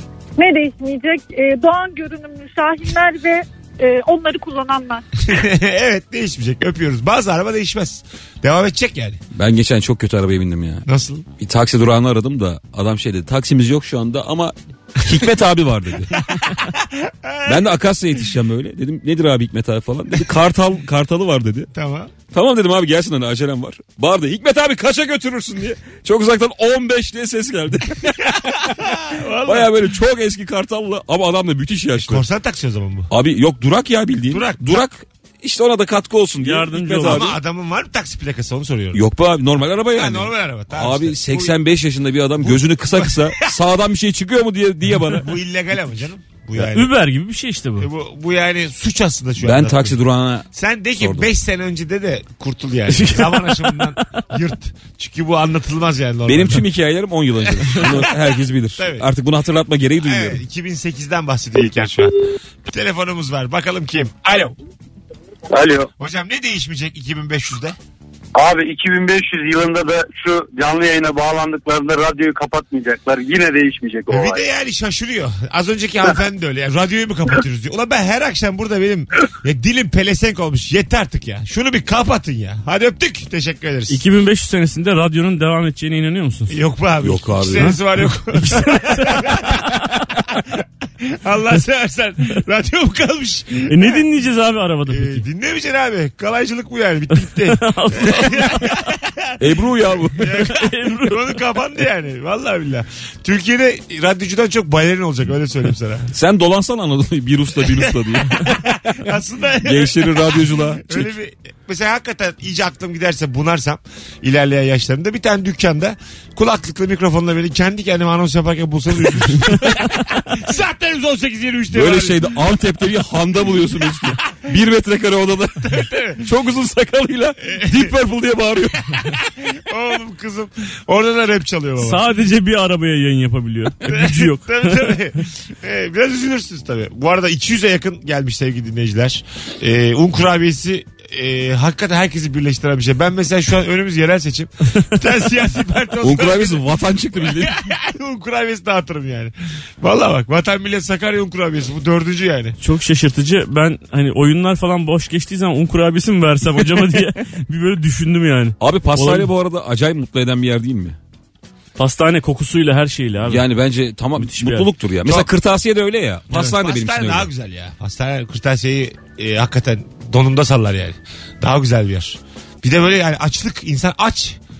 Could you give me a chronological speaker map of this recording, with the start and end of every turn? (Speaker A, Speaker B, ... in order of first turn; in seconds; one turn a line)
Speaker A: 0.4-5.0
Speaker B: 5.2-9.2
Speaker C: 9.3-10.8
Speaker B: 10.8-11.2
Speaker C: 11.4-16.2
Speaker B: 16.2-17.7
Speaker C: 17.4-21.7
Speaker B: 21.7-22.1
Speaker C: 22.3-32.2
Speaker B: 28.2-29.7
Speaker B: 31.9-33.1
Speaker C: 33.1-37.4
Speaker B: 34.3-34.8
Speaker D: 36.4-37.3
Speaker B: 37.0-39.0
Speaker C: 38.9-45.3
Speaker B: 39.9-41.5
Speaker B: 42.4-43.5
Speaker B: 45.0-46.9
Speaker D: 46.5-47.9
Speaker B: 47.8-50.0
Speaker C: 49.4-51.3
Speaker B: 50.5-56.6
Speaker D: 52.9-54.0
Speaker C: 56.2-60.4
Speaker B: 57.5-58.1
Speaker B: 58.8-59.0
Speaker B: 60.0-62.1
Speaker B: 62.6-64.5
Speaker E: 65.5-65.9
Speaker B: 66.0-67.8
Speaker E: 68.3-74.4
Speaker B: 74.1-84.0
Speaker D: 83.9-86.5
Speaker B: 86.5-90.5
Speaker C: 87.0-87.8
Speaker D: 88.3-89.7
Speaker B: 91.0-94.0
Speaker D: 93.7-95.2
Speaker B: 94.9-106.1
Speaker D: 97.2-98.9
Speaker C: 99.4-100.4
Speaker D: 100.3-101.4
Speaker C: 106.1-111.1
Speaker B: 107.6-122.3
Speaker C: 121.7-129.0
Speaker B: 125.6-126.2
Speaker B: 127.4-127.9
Speaker B: 129.0-132.0
Speaker D: 131.8-134.9
Speaker B: 133.8-146.6
Speaker C: 146.0-147.6
Speaker B: 147.2-152.6
Speaker D: 152.6-159.3
Speaker C: 158.6-161.0
Speaker D: 161.8-163.4
Speaker C: 163.2-167.3
Speaker D: 164.2-164.7
Speaker B: 166.3-174.4